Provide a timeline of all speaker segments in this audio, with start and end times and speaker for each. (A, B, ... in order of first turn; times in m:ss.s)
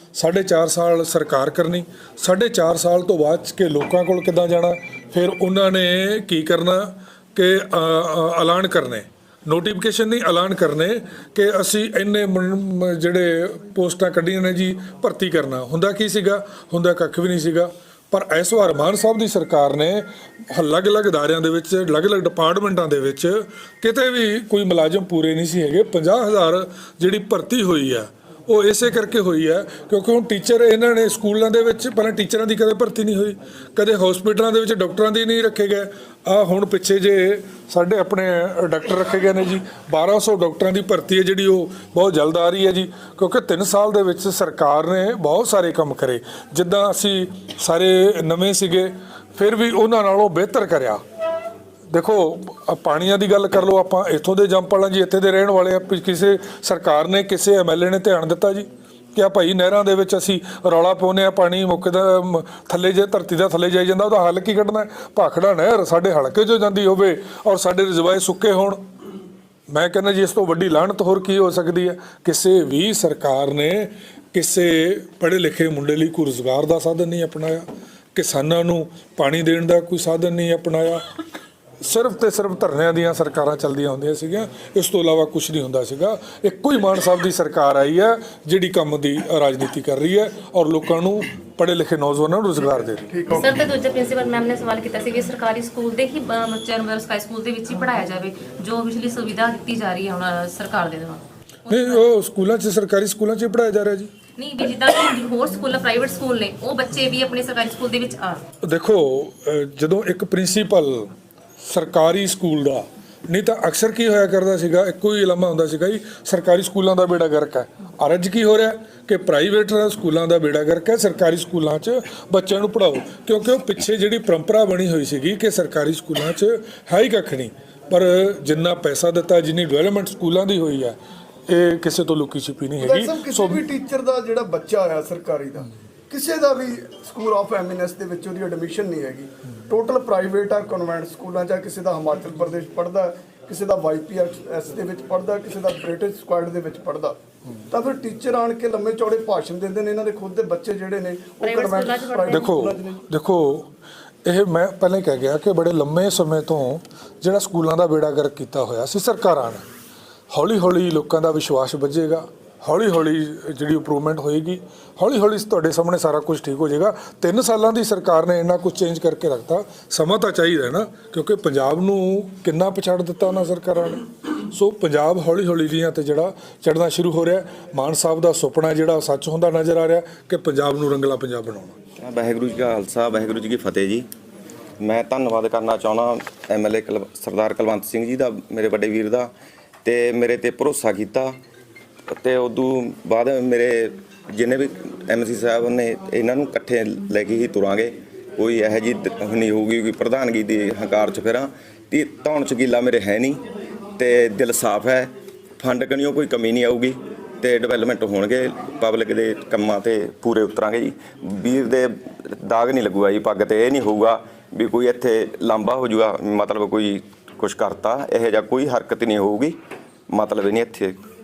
0:00.2-0:51.0 A
0:51.9-1:08.8 A
1:09.7-1:21.0 A
1:21.8-1:33.0 A
1:33.1-1:33.8 B
1:33.3-1:42.0 C
1:41.7-1:44.1 A
1:44.4-1:48.4 C
1:48.6-1:51.1 A
1:51.6-2:11.0 A
2:11.5-2:13.6 A
2:12.8-2:27.2 B
2:27.7-2:33.0 B
2:31.4-2:32.4 C
2:32.3-2:33.7 A
2:34.2-2:39.7 A
2:40.3-3:01.8 A
3:02.0-3:04.0 D
3:04.8-3:09.3 D
3:09.8-3:11.3 D
3:12.2-3:23.4 D
3:24.0-3:31.9 D
3:32.4-3:39.6 D
3:40.1-3:40.9 D